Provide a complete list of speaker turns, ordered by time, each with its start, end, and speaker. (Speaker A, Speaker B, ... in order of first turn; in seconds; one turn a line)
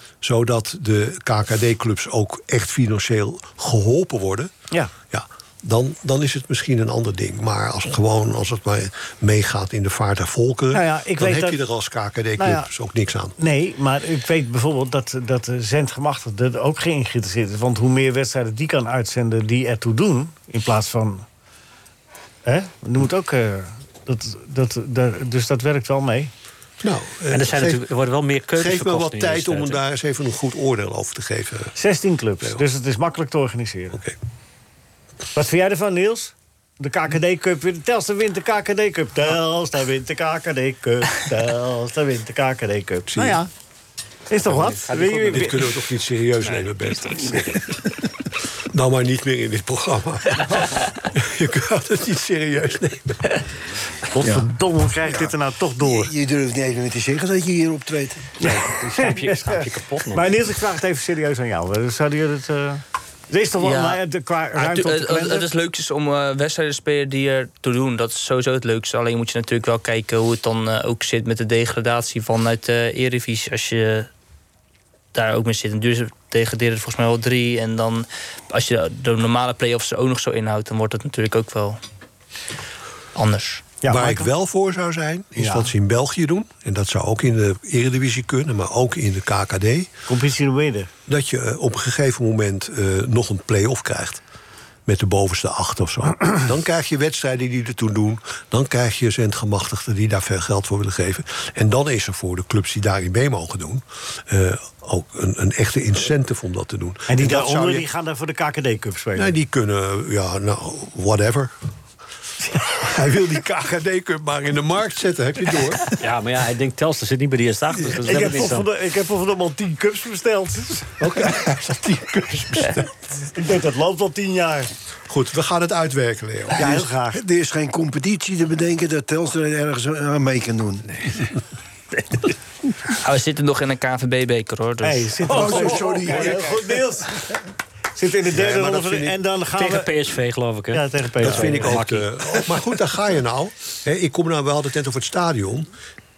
Speaker A: 0.2-4.5
Speaker A: 5.1-13.3
Speaker B: 10.7-11.6
Speaker B: 12.4-12.7
Speaker B: 13.4-21.2
Speaker B: 22.4-26.3
Speaker A: 26.8-27.9
Speaker C: 27.3-29.8
Speaker A: 28.6-31.7
Speaker B: 31.8-34.0
Speaker B: 35.3-43.5
Speaker A: 43.1-43.4
Speaker B: 44.3-45.6
Speaker C: 44.6-45.5
Speaker A: 45.3-47.9
Speaker A: 48.7-53.4
Speaker B: 54.1-56.1
Speaker D: 54.2-54.5
Speaker D: 55.0-58.3
Speaker B: 58.4-65.5
Speaker C: 58.4-60.3
Speaker E: 63.6-64.0
Speaker E: 64.5-74.1
Speaker E: 75.1-81.8
Speaker E: 83.1-83.6
Speaker B: 83.8-84.3
Speaker A: 83.9-89.9
Speaker B: 85.3-85.7
Speaker B: 90.1-90.9
Speaker A: 91.1-94.2
Speaker A: 94.8-107.9
Speaker B: 107.1-109.3
Speaker A: 109.2-111.5
Speaker A: 112.7-115.9
Speaker C: 116.0-118.7
Speaker B: 117.8-120.9
Speaker A: 121.0-122.9
Speaker B: 123.3-124.7
Speaker A: 125.1-126.8
Speaker B: 126.6-127.2
Speaker D: 126.7-131.1
Speaker E: 133.0-135.3
Speaker B: 134.8-137.1
Speaker D: 135.3-136.6
Speaker C: 135.5-136.1
Speaker B: 137.9-139.9
Speaker A: 138.3-139.2
Speaker C: 139.5-142.4
Speaker B: 140.7-141.8
Speaker A: 141.2-145.7